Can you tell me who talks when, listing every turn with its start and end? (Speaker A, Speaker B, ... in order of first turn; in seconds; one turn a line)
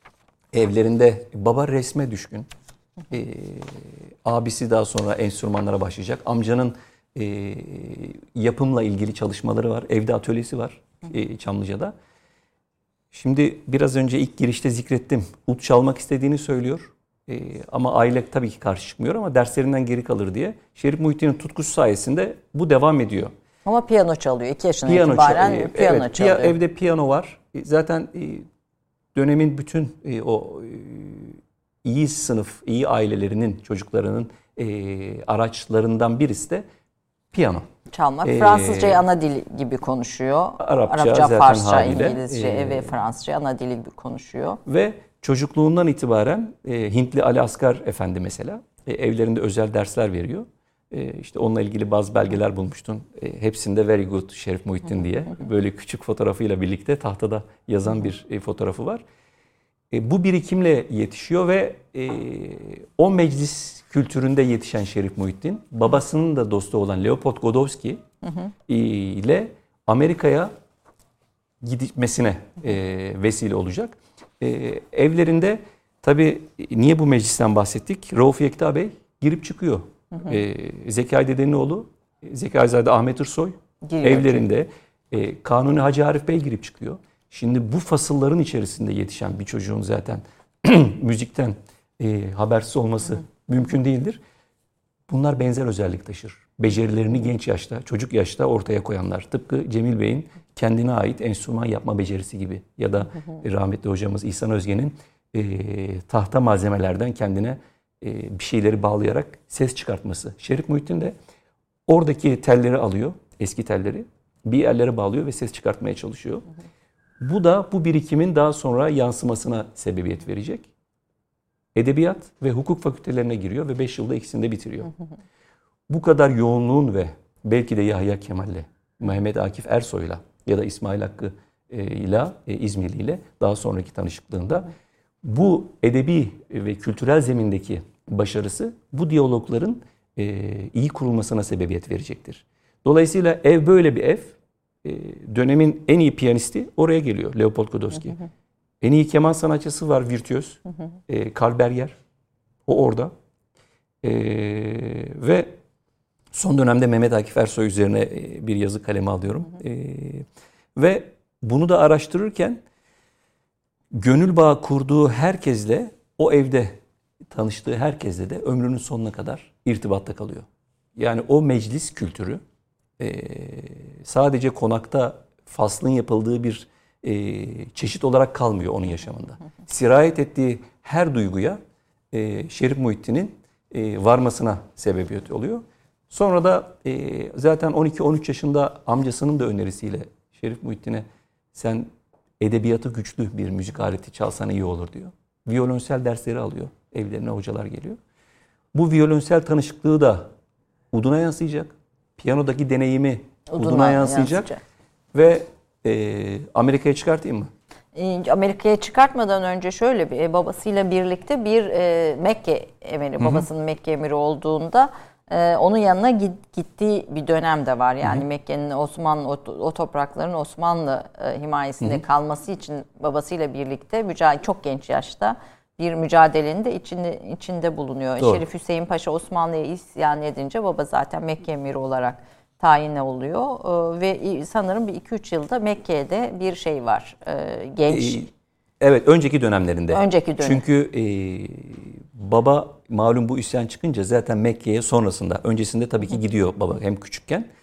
Speaker A: 0.5-2.5
Speaker A: 3.1-11.9
Speaker A: 13.1-23.3
Speaker B: 23.6-26.5
Speaker A: 24.9-28.5
Speaker A: 29.1-36.6
Speaker A: 37.3-37.7
Speaker B: 37.9-44.6
Speaker A: 38.2-39.0
Speaker A: 40.6-42.9
Speaker A: 44.7-59.0
Speaker A: 59.9-68.0
Speaker A: 68.7-70.5
Speaker A: 71.6-94.2
Speaker B: 83.8-84.5
Speaker A: 95.1-111.2
Speaker A: 111.9-116.5
Speaker A: 117.2-120.7
Speaker A: 121.8-124.9
Speaker A: 125.9-134.7
Speaker A: 135.2-148.2
Speaker A: 148.8-151.9
Speaker A: 152.7-153.1
Speaker A: 154.0-155.6
Speaker A: 156.3-162.6
Speaker A: 163.9-166.8
Speaker A: 167.3-172.4
Speaker A: 173.0-181.6
Speaker A: 182.1-191.9
Speaker A: 192.4-198.0
Speaker A: 198.7-200.3
Speaker A: 200.9-204.5
Speaker B: 203.5-204.6
Speaker A: 205.1-207.5
Speaker B: 207.9-238.3
Speaker A: 237.9-238.3
Speaker A: 238.8-247.5
Speaker B: 239.9-240.6